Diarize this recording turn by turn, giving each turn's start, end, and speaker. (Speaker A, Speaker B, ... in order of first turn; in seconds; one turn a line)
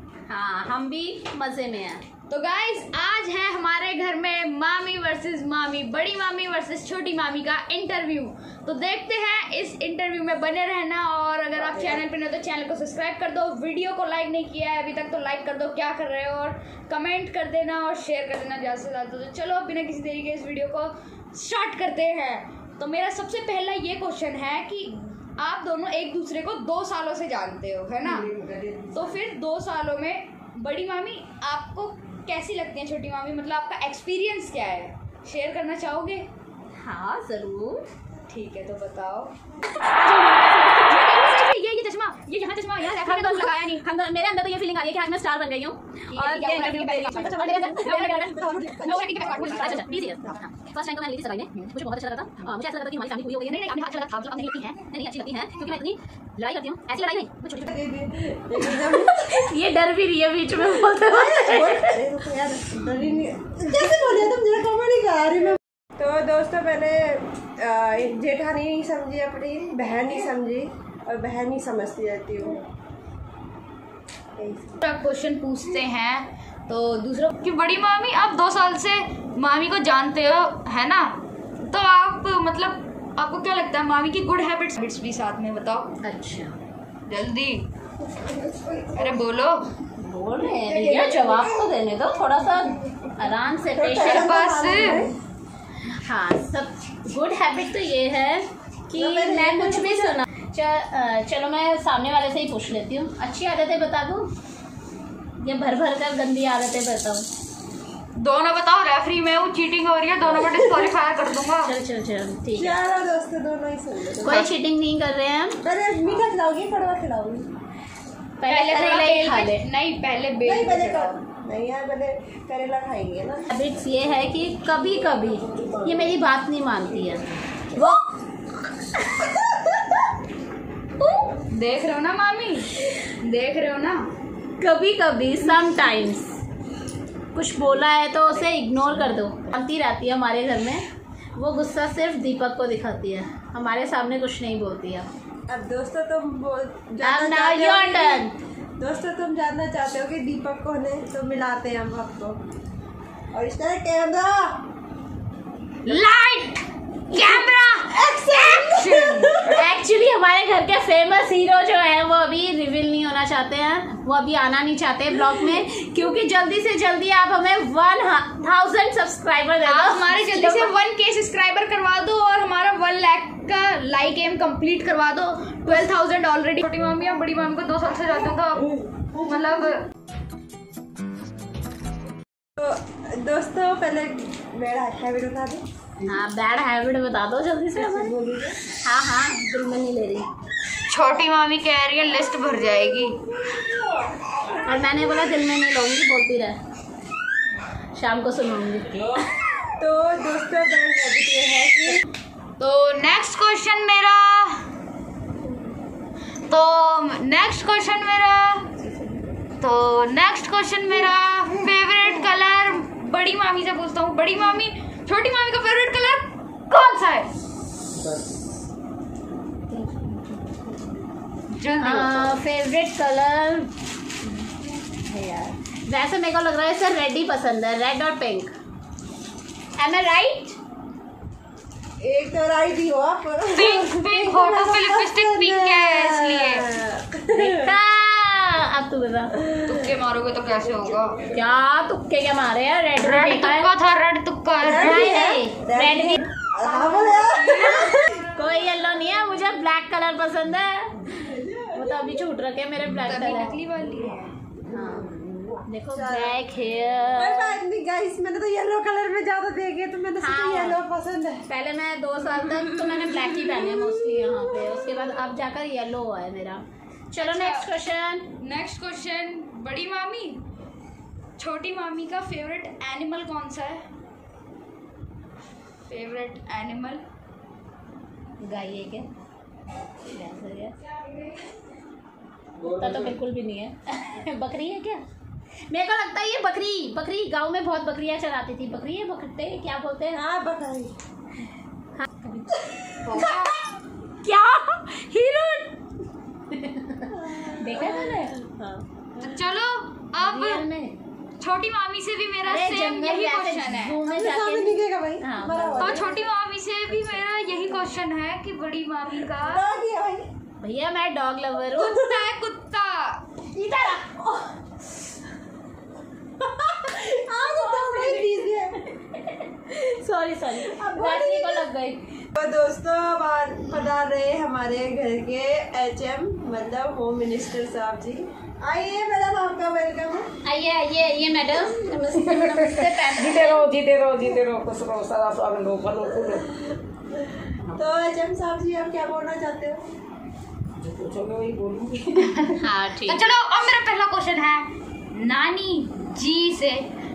Speaker A: 0.3-2.0
Speaker B: 2.3-28.3
Speaker C: 28.1-29.1
Speaker B: 28.9-36.3
Speaker A: 36.8-37.8
Speaker B: 38.3-39.3
Speaker A: 39.7-41.3
Speaker B: 41.1-43.8
Speaker A: 42.8-57.5
Speaker B: 46.1-49.9
Speaker D: 47.4-48.0
Speaker D: 48.5-49.0
Speaker B: 53.5-54.7
Speaker D: 57.6-59.5
Speaker A: 58.7-62.0
Speaker D: 60.9-72.6
Speaker B: 74.8-85.9
Speaker A: 86.0-86.5
Speaker B: 87.1-87.7
Speaker D: 88.2-89.2
Speaker B: 89.0-89.7
Speaker A: 90.0-94.8
Speaker D: 93.8-95.2
Speaker B: 94.0-95.1
Speaker A: 96.0-104.3
Speaker D: 99.0-100.2
Speaker A: 105.4-107.3
Speaker B: 108.2-111.7
Speaker A: 111.6-112.8
Speaker D: 112.6-114.5
Speaker A: 114.2-115.6
Speaker D: 115.6-117.5
Speaker A: 118.4-119.7
Speaker B: 118.5-121.2
Speaker D: 120.5-123.5
Speaker A: 123.5-128.0
Speaker B: 131.0-134.1
Speaker A: 134.6-136.3
Speaker A: 137.3-140.8
Speaker C: 138.4-139.1
Speaker A: 141.4-145.1
Speaker D: 145.5-152.4
Speaker A: 147.0-148.3
Speaker D: 153.3-154.6
Speaker B: 155.8-159.4
Speaker D: 157.9-159.7
Speaker A: 159.5-170.7
Speaker B: 169.7-179.9
Speaker D: 182.6-185.6
Speaker A: 186.0-188.1
Speaker D: 187.8-188.6
Speaker A: 188.8-190.3
Speaker B: 190.9-193.2
Speaker A: 194.6-196.6
Speaker A: 198.0-199.3
Speaker D: 199.8-202.0
Speaker B: 202.6-204.6
Speaker B: 206.5-208.7
Speaker B: 209.6-217.3
Speaker A: 219.7-221.0
Speaker B: 221.5-222.4
Speaker A: 221.8-223.7
Speaker A: 224.2-224.5
Speaker A: 225.1-228.5
Speaker A: 229.8-230.6
Speaker D: 232.0-237.7
Speaker B: 233.5-236.7
Speaker A: 237.3-239.3
Speaker B: 239.7-241.2
Speaker A: 241.3-243.7
Speaker B: 243.0-245.2
Speaker D: 244.6-248.2
Speaker A: 244.7-246.3
Speaker B: 246.6-248.1
Speaker A: 247.5-253.6
Speaker B: 253.0-254.3
Speaker A: 254.6-257.6
Speaker D: 255.9-256.4
Speaker D: 257.2-261.5
Speaker A: 260.2-260.8
Speaker A: 261.5-268.3
Speaker B: 267.2-267.7
Speaker B: 268.4-270.4
Speaker B: 271.4-273.9
Speaker B: 275.9-277.0
Speaker A: 278.4-279.1
Speaker A: 280.1-280.8
Speaker A: 282.6-285.0
Speaker A: 285.7-290.2
Speaker D: 290.1-290.9
Speaker A: 292.0-292.6
Speaker B: 293.0-293.6
Speaker A: 294.2-295.7
Speaker A: 296.5-299.2
Speaker D: 297.1-298.3
Speaker B: 299.2-300.6
Speaker A: 300.2-300.9
Speaker B: 301.4-304.0
Speaker A: 302.5-306.0
Speaker D: 304.1-306.3
Speaker B: 305.8-309.6
Speaker A: 306.9-307.2
Speaker D: 309.4-310.3
Speaker A: 310.6-312.2
Speaker B: 311.8-313.2
Speaker A: 313.5-314.5
Speaker D: 316.8-318.8
Speaker A: 317.0-322.0
Speaker D: 320.6-321.7
Speaker D: 322.4-330.3
Speaker A: 330.4-333.7
Speaker C: 332.1-336.6
Speaker D: 337.8-339.8
Speaker C: 340.8-342.5
Speaker A: 342.6-343.2
Speaker B: 343.1-346.9